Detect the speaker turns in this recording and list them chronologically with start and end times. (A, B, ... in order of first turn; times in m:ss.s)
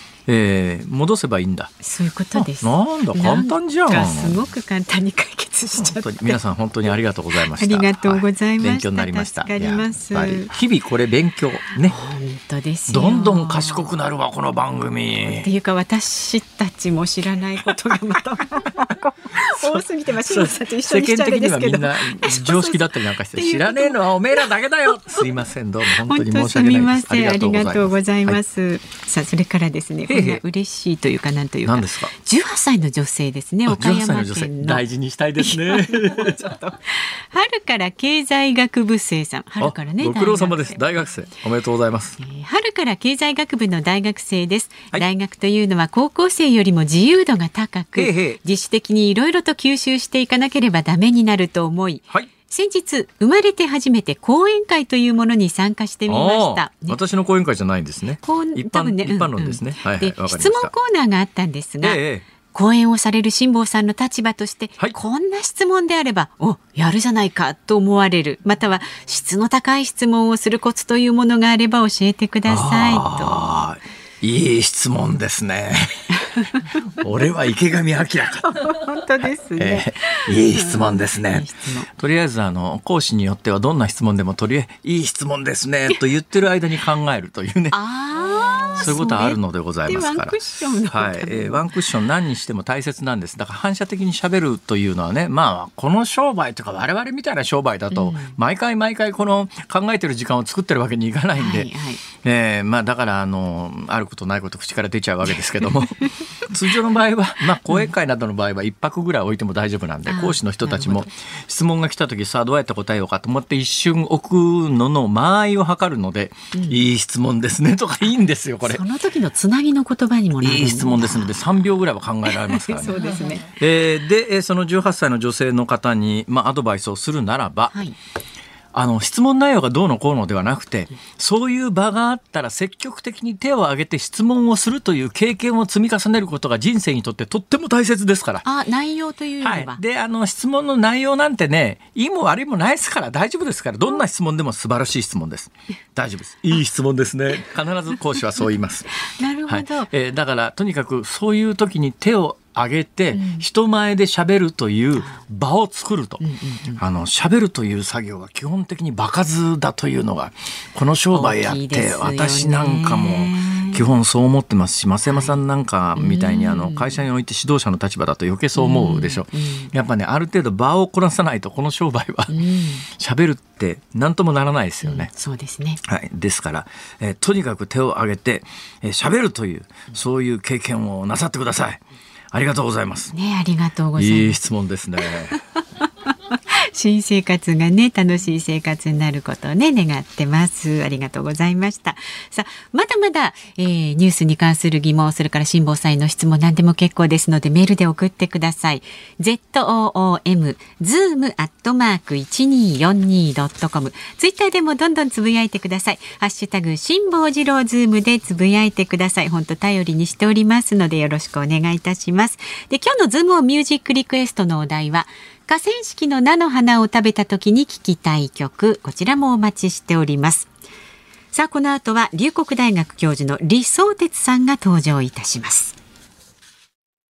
0:00.3-0:01.7 A
0:01.8-0:06.4 B
0:02.4-0:04.4 A
0:05.8-0:12.0 A
0:07.6-0:10.5 B
0:11.9-0:13.9 B
0:12.9-0:15.5 A
0:15.4-0:24.4 B
0:19.4-0:28.4 A
0:26.0-0:34.8 B
0:30.1-0:30.4 A
0:31.6-0:32.1 A
0:33.7-0:36.5 A
0:35.4-0:40.8 B
0:39.6-0:42.2 A
0:42.2-0:57.0 B
0:48.0-0:48.4 A
0:56.1-1:00.7 A
0:58.2-1:02.0 B
1:01.8-1:02.2 A
1:02.5-1:13.5 B
1:12.5-1:16.1 A
1:16.2-1:16.8 B
1:17.0-1:18.9 A
1:18.4-1:21.9 B
1:19.6-1:27.8 A
1:27.7-1:31.6 B
1:28.7-1:58.8 A
1:37.9-1:38.4 B
1:41.4-1:42.0 B
1:50.1-1:51.1 B
1:56.5-1:56.8 B
1:58.6-2:01.4 B
2:00.4-2:07.8 A
2:02.5-2:03.5 B
2:08.7-2:18.4 A
2:18.4-2:19.8 B
2:19.4-2:28.9 A
2:29.1-2:29.9 B
2:29.5-2:36.2 A
2:33.1-2:33.5 B
2:35.0-2:35.2 B
2:36.2-2:36.8 B
2:36.8-2:52.4 A
2:41.1-2:43.8 B
2:45.1-2:45.4 B
2:46.0-2:47.0 B
2:48.6-2:49.7 B
2:52.3-2:52.9 B
2:52.9-2:55.1 A
2:54.8-2:55.8 B
2:55.8-3:01.8 A
3:02.3-3:03.1 A
3:03.1-3:04.4 B
3:04.0-3:05.4 A
3:06.3-3:40.5 B
3:41.3-3:45.8 B